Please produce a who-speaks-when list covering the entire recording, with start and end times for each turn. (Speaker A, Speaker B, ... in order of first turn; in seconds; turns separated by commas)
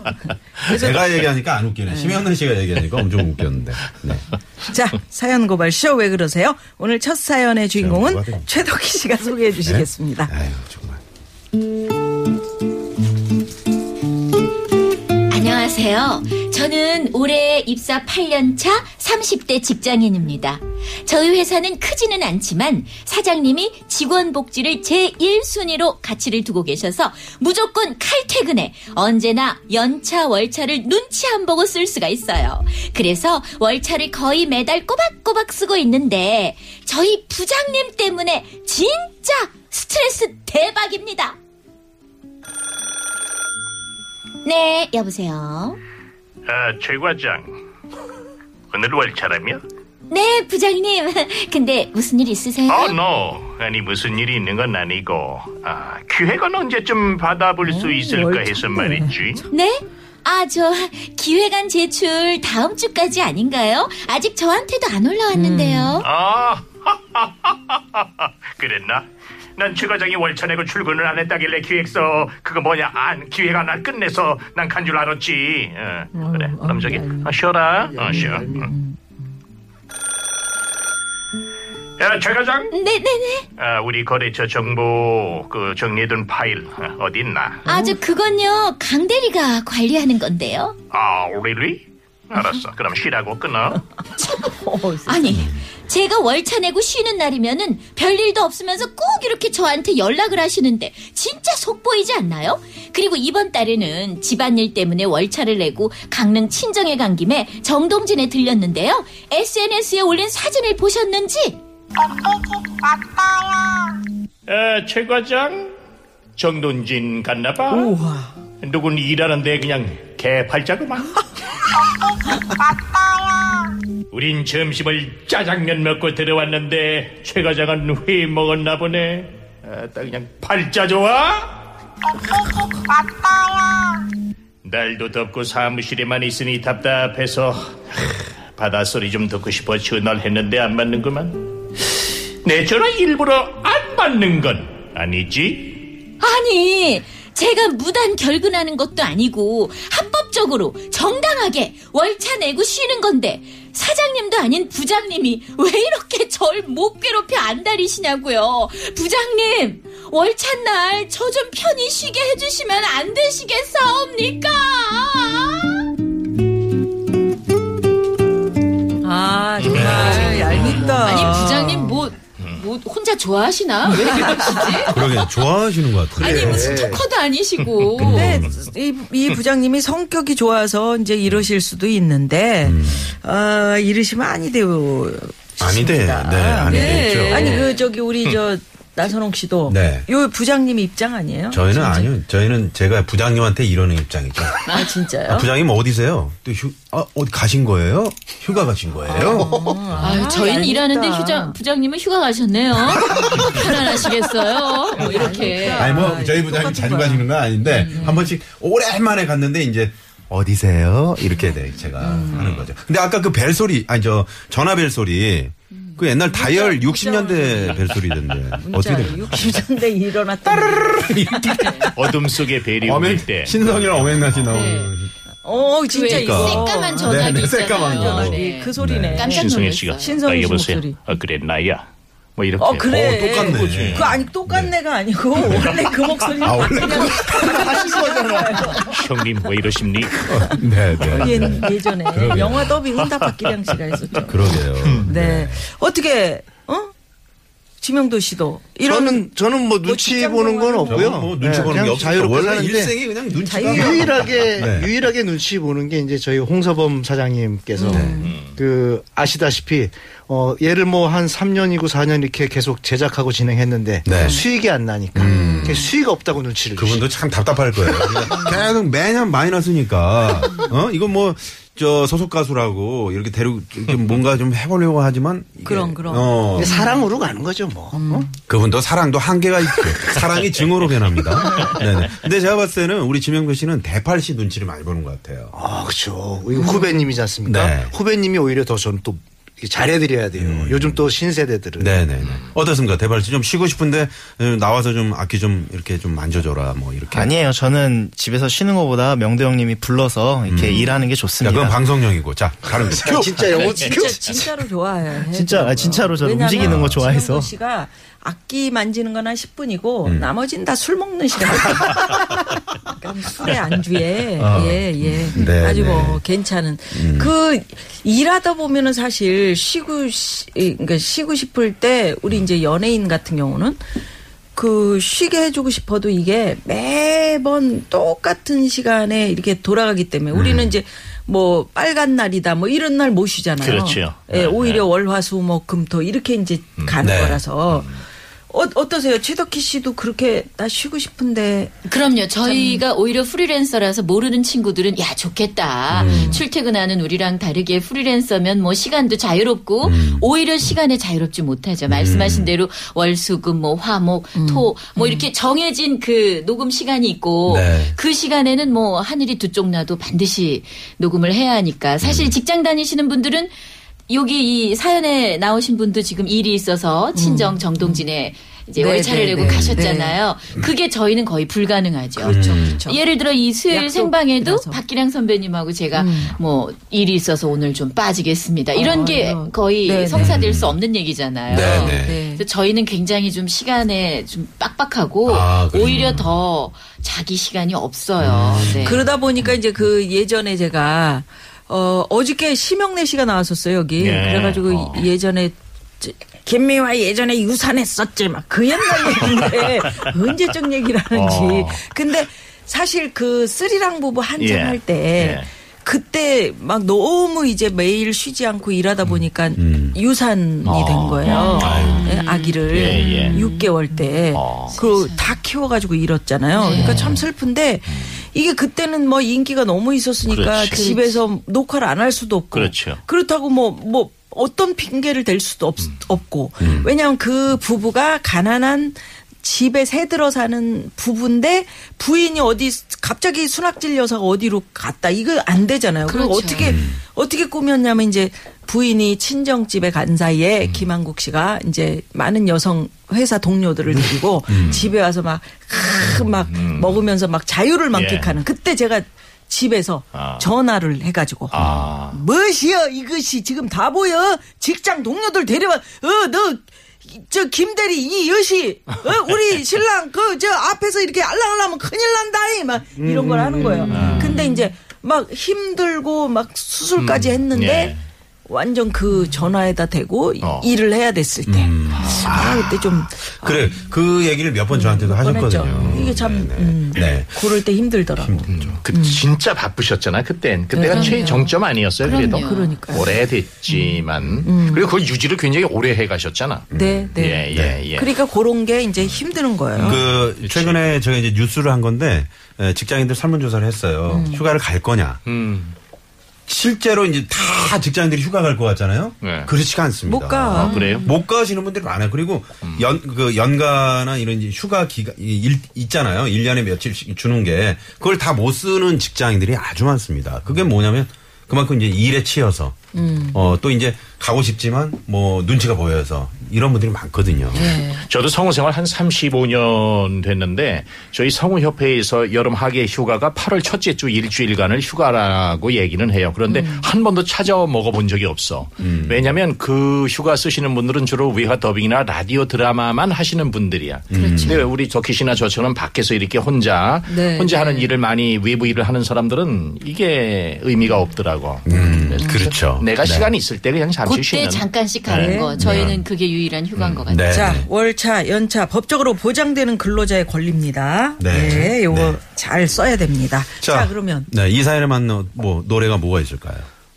Speaker A: 0.6-1.2, Speaker B: 0.7-4.2, Speaker A: 1.9-2.2, Speaker A: 4.7-10.3, Speaker B: 7.8-8.5, Speaker B: 9.6-11.0, Speaker C: 15.3-41.4, Speaker C: 44.4-45.8, Speaker D: 46.5-47.5, Speaker D: 48.7-49.6, Speaker C: 50.1-53.0, Speaker D: 52.7-59.5, Speaker A: 57.6-59.5, Speaker C: 59.5-66.0, Speaker A: 65.3-66.0, Speaker D: 66.0-78.7, Speaker A: 76.1-77.3, Speaker E: 77.9-78.7, Speaker A: 78.1-79.0, Speaker D: 82.0-82.7, Speaker C: 82.7-83.5, Speaker D: 83.6-87.6, Speaker A: 87.7-87.9, Speaker C: 87.7-90.8, Speaker D: 90.9-93.8, Speaker A: 94.2-95.3, Speaker C: 94.2-111.6, Speaker D: 114.5-115.7, Speaker D: 116.3-117.9, Speaker A: 117.7-118.3, Speaker D: 118.6-121.2, Speaker D: 124.1-131.6, Speaker D: 134.6-145.8, Speaker C: 146.2-165.8, Speaker A: 169.0-172.0, Speaker D: 169.6-170.8, Speaker C: 169.8-175.0, Speaker A: 174.1-174.9, Speaker B: 174.9-176.9, Speaker C: 176.2-178.4, Speaker E: 176.2-177.0, Speaker B: 178.0-178.5, Speaker A: 178.0-192.1, Speaker B: 182.6-183.1, Speaker B: 185.6-187.6, Speaker C: 186.7-187.8, Speaker B: 189.7-190.1, Speaker B: 191.5-194.6, Speaker A: 194.7-195.5, Speaker B: 195.3-200.1, Speaker A: 199.1-201.6, Speaker C: 200.0-206.0, Speaker B: 202.9-203.4, Speaker A: 203.3-204.0, Speaker A: 204.9-207.3, Speaker B: 205.6-219.6, Speaker A: 207.8-208.2, Speaker C: 207.8-208.2, Speaker A: 212.0-212.5, Speaker D: 212.3-212.7, Speaker C: 215.7-216.0, Speaker A: 216.3-217.9, Speaker A: 218.5-221.6, Speaker B: 220.4-225.1, Speaker D: 221.9-224.4, Speaker C: 224.5-224.9, Speaker A: 225.4-231.0, Speaker C: 225.9-230.2, Speaker B: 226.0-229.3, Speaker D: 229.2-234.2, Speaker A: 232.6-239.0, Speaker B: 232.9-234.7, Speaker B: 235.3-235.8, Speaker B: 236.4-237.9, Speaker E: 237.2-238.8, Speaker D: 238.8-240.5, Speaker B: 240.2-242.7, Speaker A: 241.1-246.9, Speaker B: 244.2-245.6, Speaker A: 247.8-249.2, Speaker E: 248.8-252.9, Speaker A: 249.8-251.2, Speaker B: 250.9-254.9, Speaker A: 253.4-254.1, Speaker E: 253.6-267.0, Speaker A: 257.8-258.3, Speaker B: 257.9-258.2, Speaker D: 258.2-258.6, Speaker B: 264.0-264.4, Speaker A: 264.1-264.4, Speaker B: 265.1-265.8, Speaker A: 265.2-265.9, Speaker B: 266.8-276.8, Speaker E: 268.0-268.5, Speaker A: 268.3-268.6, Speaker A: 275.6-277.0, Speaker E: 276.6-278.3, Speaker A: 277.9-278.3, Speaker B: 278.5-285.6, Speaker E: 285.5-292.0, Speaker A: 286.6-286.9, Speaker B: 287.4-287.9, Speaker B: 290.4-291.1, Speaker B: 291.8-297.4, Speaker F: 297.1-301.8, Speaker B: 300.5-303.8, Speaker E: 302.7-304.5, Speaker A: 303.6-312.2, Speaker F: 305.3-307.5, Speaker B: 306.6-307.1, Speaker B: 310.0-310.3, Speaker A: 312.9-323.8, Speaker B: 314.4-316.2, Speaker B: 316.9-317.3, Speaker A: 324.6-337.9, Speaker B: 330.3-330.7, Speaker D: 333.6-334.9, Speaker B: 337.0-337.4, Speaker D: 337.7-338.0, Speaker A: 338.5-341.7, Speaker C: 341.9-363.5, Speaker A: 342.4-342.8, Speaker B: 345.9-346.4, Speaker A: 346.0-346.4, Speaker B: 349.8-350.3, Speaker B: 351.9-352.5, Speaker A: 354.4-355.2, Speaker B: 357.5-357.9, Speaker B: 362.0-362.3, Speaker C: 364.1-389.0, Speaker A: 367.1-368.0, Speaker A: 368.8-370.2, Speaker B: 369.4-369.9, Speaker A: 372.2-373.0, Speaker B: 372.2-372.8, Speaker A: 373.7-374.8, Speaker A: 375.9-376.4, Speaker A: 378.8-380.3, Speaker B: 380.1-380.8, Speaker B: 381.5-382.2, Speaker A: 381.5-382.4, Speaker B: 385.2-386.2, Speaker B: 388.2-389.1, Speaker A: 388.8-467.9, Speaker D: 394.0-395.1, Speaker D: 399.2-400.1, Speaker D: 401.1-401.9, Speaker D: 404.4-405.5, Speaker B: 409.6-410.0, Speaker D: 410.6-412.1, Speaker C: 411.2-414.2, Speaker B: 411.6-412.0, Speaker D: 412.7-413.4, Speaker D: 414.3-414.8, Speaker C: 414.7-415.4, Speaker C: 416.5-417.2, Speaker D: 416.8-417.1, Speaker D: 417.9-418.2, Speaker D: 420.2-420.8, Speaker C: 420.7-421.1, Speaker D: 422.5-423.0, Speaker B: 426.6-426.9, Speaker C: 436.1-436.8, Speaker B: 436.6-437.0, Speaker B: 444.5-444.9, Speaker D: 446.5-447.0, Speaker D: 447.9-448.4, Speaker D: 450.1-450.5, Speaker D: 451.5-452.2, Speaker E: 463.0-464.2, Speaker D: 463.9-464.4, Speaker D: 467.0-468.0, Speaker A: 468.5-473.8, Speaker D: 470.4-470.7, Speaker B: 471.5-477.6, Speaker A: 474.7-479.2, Speaker D: 475.7-476.1, Speaker B: 478.2-478.8, Speaker D: 478.5-488.1, Speaker A: 480.7-483.1, Speaker C: 480.8-481.4, Speaker C: 482.0-482.8, Speaker A: 483.7-484.9, Speaker B: 486.7-487.8, Speaker A: 486.7-490.0, Speaker D: 489.7-490.9, Speaker B: 489.8-495.2, Speaker A: 494.1-494.4, Speaker D: 495.2-495.7, Speaker B: 496.5-517.7, Speaker D: 499.2-499.5, Speaker A: 500.1-500.9, Speaker D: 500.5-501.1, Speaker C: 500.7-501.0, Speaker A: 512.9-513.4, Speaker A: 517.5-518.0, Speaker D: 518.0-545.4, Speaker A: 526.5-526.8, Speaker B: 528.8-529.2, Speaker B: 534.1-534.6, Speaker A: 534.2-534.6, Speaker C: 534.3-534.5, Speaker A: 537.0-537.9, Speaker B: 541.6-543.3, Speaker A: 541.7-542.4, Speaker C: 544.0-547.5, Speaker A: 545.1-545.8, Speaker B: 545.6-546.0, Speaker B: 546.9-547.7, Speaker A: 547.3-554.3, Speaker B: 551.2-552.2, Speaker B: 553.6-556.7